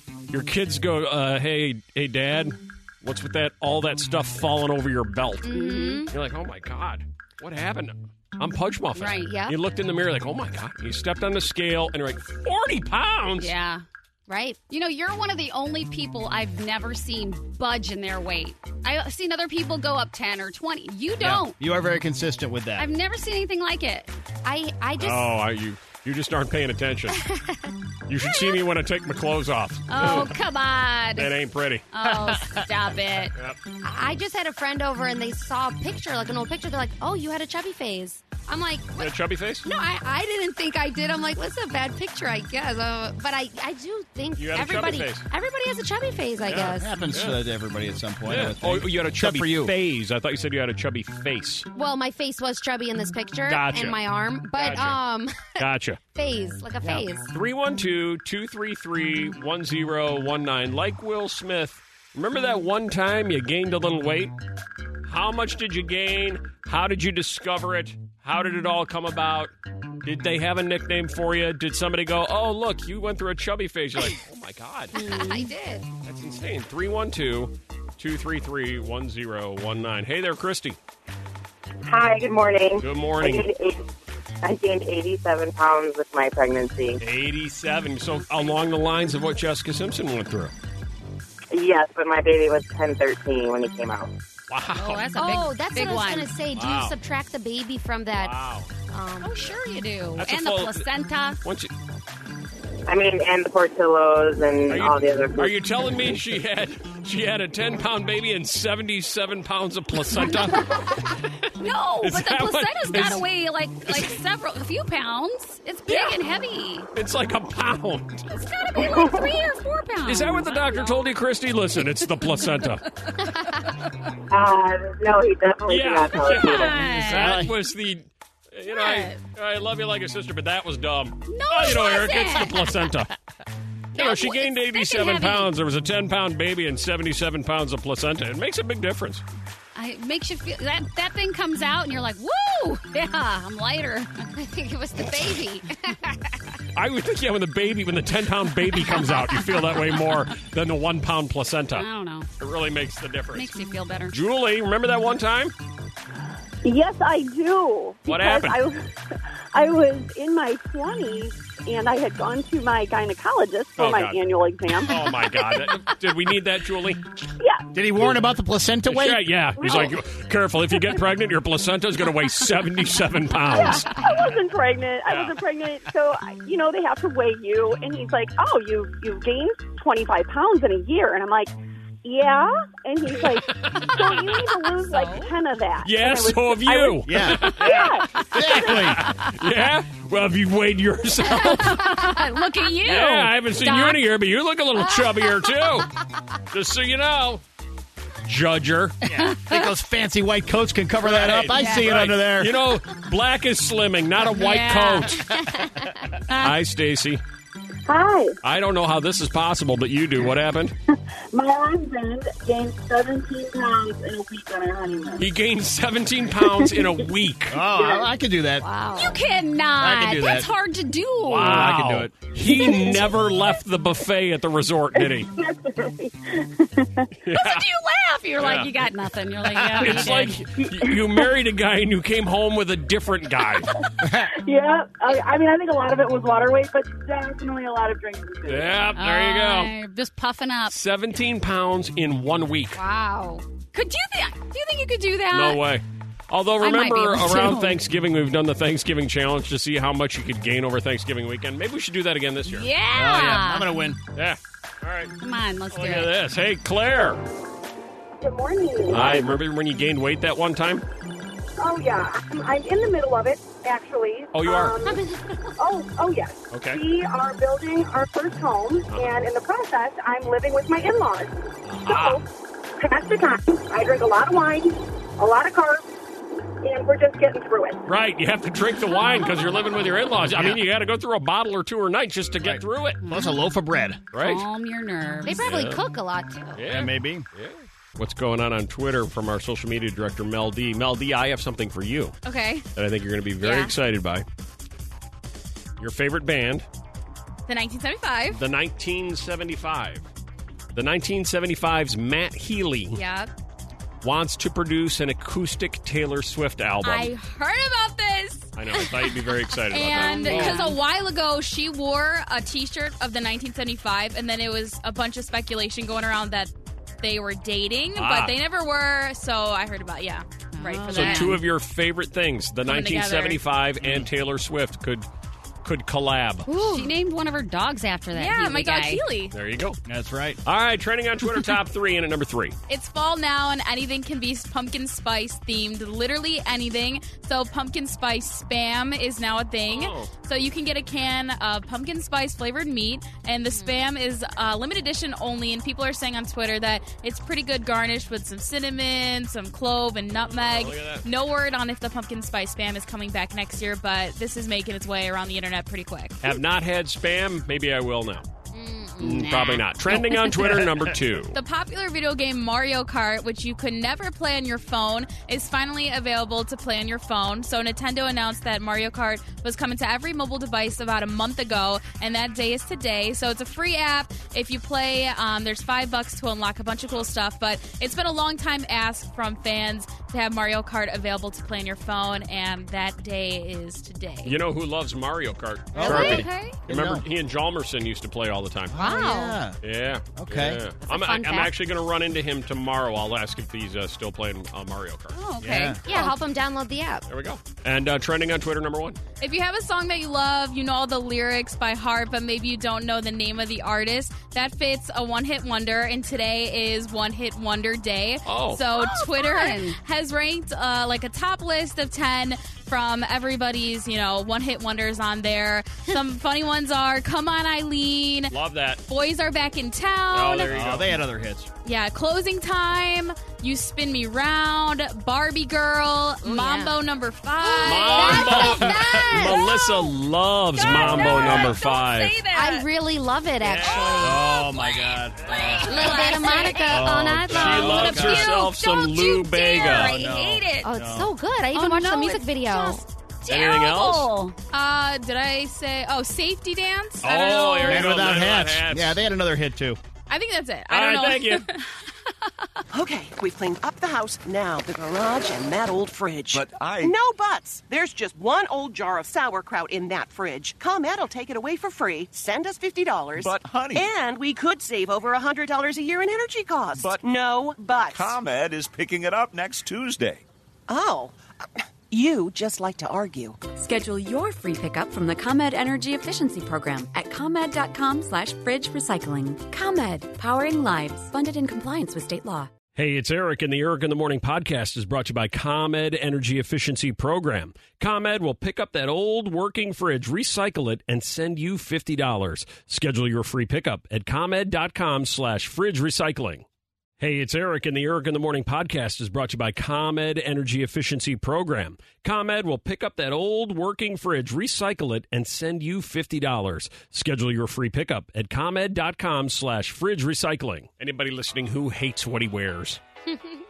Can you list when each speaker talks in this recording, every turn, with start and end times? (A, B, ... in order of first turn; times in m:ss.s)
0:00.3-0:05.5 A
0:05.5-0:06.1 B
0:05.5-0:06.1 C
0:06.1-0:13.5 A
0:09.0-0:09.4 C
0:09.2-0:09.6 B
0:13.4-0:13.8 C
0:14.3-0:14.6 B
0:14.7-0:21.6 C
0:21.2-0:22.9 D
0:22.8-0:24.1 C
0:24.4-0:25.3 B
0:25.0-0:27.2 A
0:27.2-0:27.7 B
0:28.1-0:30.4 A
0:29.9-0:31.3 C
0:31.2-0:31.9 A
0:31.9-0:33.3 C
0:32.0-0:32.6 D
0:33.8-0:39.1 B
0:39.0-0:39.7 A
0:39.6-0:47.0 B
0:44.4-0:45.3 A
0:46.5-0:49.7 D
0:46.5-0:47.4 A
0:48.3-0:51.7 A
0:51.7-0:55.6 B
0:53.4-0:54.0 A
0:54.5-0:55.0 A
0:55.6-0:56.0 A
0:56.2-0:57.3 B
0:56.8-1:04.4 A
1:05.0-1:09.5 A
1:10.0-1:15.0 A
1:14.9-1:15.5 C
1:14.9-1:15.9 B
1:16.0-1:20.8 A
1:21.9-1:23.9 E
1:22.8-1:23.5 A
1:24.4-1:27.0 E
1:27.0-1:30.5 A
1:31.5-1:34.1 E
1:34.5-1:35.0 A
1:34.7-1:36.4 C
1:35.2-1:38.4 B
1:36.5-1:36.9 A
1:38.2-1:38.7 A
1:38.9-1:39.6 B
1:39.2-1:41.4 C
1:40.2-1:40.9 A
1:41.4-1:41.7 A
1:42.9-1:45.6 E
1:44.7-1:51.1 A
1:50.4-1:50.9 C
1:51.6-1:56.9 C
1:52.0-1:53.2 A
1:53.9-1:54.2 A
1:55.9-1:56.2 A
1:56.9-1:58.3 A
1:58.3-2:01.0 C
2:00.0-2:02.8 A
2:03.1-2:03.6 C
2:04.3-2:06.8 E
2:05.7-2:13.1 A
2:06.2-2:07.4 C
2:07.1-2:07.5 D
2:08.7-2:09.2 C
2:11.3-2:12.7 C
2:13.9-2:19.2 A
2:14.0-2:15.5 C
2:19.8-2:24.3 C
2:24.4-2:26.0 B
2:26.7-2:31.9 A
2:29.0-2:29.5 C
2:31.7-2:32.3 C
2:32.4-2:33.6 A
2:33.3-2:34.1 C
2:34.1-2:35.6 A
2:36.6-2:38.9 F
2:38.1-2:38.6 A
2:39.5-2:45.0 F
2:43.8-2:44.2 A
2:44.8-2:47.1 A
2:45.3-2:45.8 C
2:47.4-2:48.3 F
2:47.7-2:49.3 D
2:48.9-2:54.0 A
2:49.6-2:50.0 F
2:53.5-3:01.5 F
2:55.1-2:55.4 A
3:02.0-3:08.2 F
3:03.2-3:04.5 A
3:04.8-3:05.3 C
3:05.8-3:12.0 A
3:07.0-3:07.7 D
3:08.3-3:09.0 D
3:11.2-3:14.0 C
3:12.8-3:15.9 A
3:16.5-3:17.4 A
3:18.2-3:19.1 A
3:19.0-3:22.6 D
3:19.1-3:19.7 C
3:21.0-3:25.2 A
3:21.5-3:22.0 C
3:24.3-3:25.6 C
3:26.3-3:26.6 C
3:26.4-3:27.2 A
3:28.4-3:30.8 A
3:35.2-3:37.6 A
3:37.5-3:38.7 D
3:38.6-3:39.2 B
3:38.9-3:41.7 C
3:39.8-3:40.5 D
3:41.3-3:45.3 A
3:41.3-3:42.1 D
3:47.2-3:47.6 A
3:47.3-3:50.5 C
3:48.4-3:48.7 A
3:49.8-3:53.8 A
3:54.0-3:54.3 D
3:58.5-3:59.7 A
3:58.9-4:00.8 C
4:00.7-4:02.8 A
4:02.8-4:05.6 C
4:05.3-4:12.7 A
4:06.6-4:07.8 C
4:12.5-4:13.8 C
4:12.9-4:14.0 D
4:14.2-4:15.1 A
4:15.2-4:16.1 C
4:15.7-4:17.2 A
4:18.9-4:20.8 A
4:21.6-4:24.4 G
4:24.3-4:24.8 A
4:24.8-4:25.6 B
4:26.5-4:26.8 A
4:28.1-4:31.3 G
4:28.9-4:29.2 A
4:31.6-4:32.2 A
4:31.9-4:32.2 G
4:32.8-4:34.7 G
4:35.2-4:35.8 G
4:36.6-4:37.8 G
4:37.9-4:43.0 A
4:40.4-4:40.6 D
4:42.4-4:44.0 D
4:43.0-4:43.5 C
4:44.1-4:44.4 A
4:44.2-4:45.6 C
4:45.2-4:46.7 B
4:45.4-4:45.8 A
4:46.5-4:52.2 A
4:46.7-4:47.2 D
4:52.2-4:52.7 H
4:52.8-4:54.2 A
4:53.4-4:53.8 H
4:55.8-4:56.7 A
4:57.5-4:58.4 H
4:58.3-5:00.1 A
5:00.7-5:03.0 A
5:02.9-5:03.3 H
5:04.0-5:07.1 A
5:06.8-5:09.0 H
5:08.6-5:10.7 A
5:09.7-5:21.4 H
5:10.0-5:10.8 C
5:18.0-5:18.4 A
5:20.5-5:21.4 C
5:20.9-5:25.1 A
5:22.6-5:23.4 H
5:25.6-5:26.5 A
5:26.5-5:29.0 C
5:26.5-5:26.9 H
5:28.1-5:29.4 H
5:29.3-5:29.8 A
5:29.9-5:30.4 D
5:30.4-5:32.6 A
5:32.7-5:56.4 H
5:39.7-5:40.1 A
5:43.5-5:43.9 B
5:50.2-5:51.1 A
5:56.2-5:58.3 A
5:58.5-5:59.2 B
5:59.0-6:01.4 A
5:59.0-6:00.3 C
6:01.3-6:24.4 H
6:24.2-6:28.8 A
6:25.7-6:27.0 D
6:25.8-6:26.6 C
6:28.7-6:29.6 D
6:28.7-6:29.4 B
6:29.6-6:35.2 A
6:30.2-6:30.6 D
6:30.8-6:31.5 B
6:35.1-6:36.2 C
6:35.4-6:35.8 D
6:35.8-6:37.0 B
6:37.1-6:39.0 A
6:39.2-6:58.4 H
6:48.2-6:48.6 A
6:48.7-6:49.8 C
6:58.3-6:58.8 A
6:58.9-7:00.5 H
7:00.1-7:01.0 A
7:00.5-7:01.5 D
7:01.6-7:08.4 H
7:06.2-7:06.8 B
7:07.4-7:09.5 B
7:07.6-7:12.2 A
7:09.3-7:09.9 C
7:10.5-7:12.7 C
7:10.7-7:11.6 D
7:12.3-7:14.3 B
7:13.4-7:14.2 A
7:13.6-7:20.8 C
7:14.0-7:16.0 D
7:15.2-7:16.1 A
7:15.6-7:18.2 B
7:16.6-7:18.3 D
7:17.3-7:20.0 A
7:19.6-7:21.1 D
7:20.6-7:22.9 B
7:21.5-7:24.4 C
7:23.3-7:24.1 A
7:24.5-7:27.9 H
7:27.0-7:29.0 A
7:27.6-7:29.8 D
7:30.1-7:31.6 H
7:30.7-7:31.4 A
7:32.7-7:48.2 I
7:36.3-7:37.0 J
7:43.2-7:43.9 J
7:46.8-7:47.0 J
7:47.9-7:50.2 J
7:50.7-7:51.2 I
7:51.9-7:53.4 I
7:53.5-8:02.5 K
8:02.8-8:16.4 A
8:17.0-8:32.8 A
8:33.1-8:33.4 B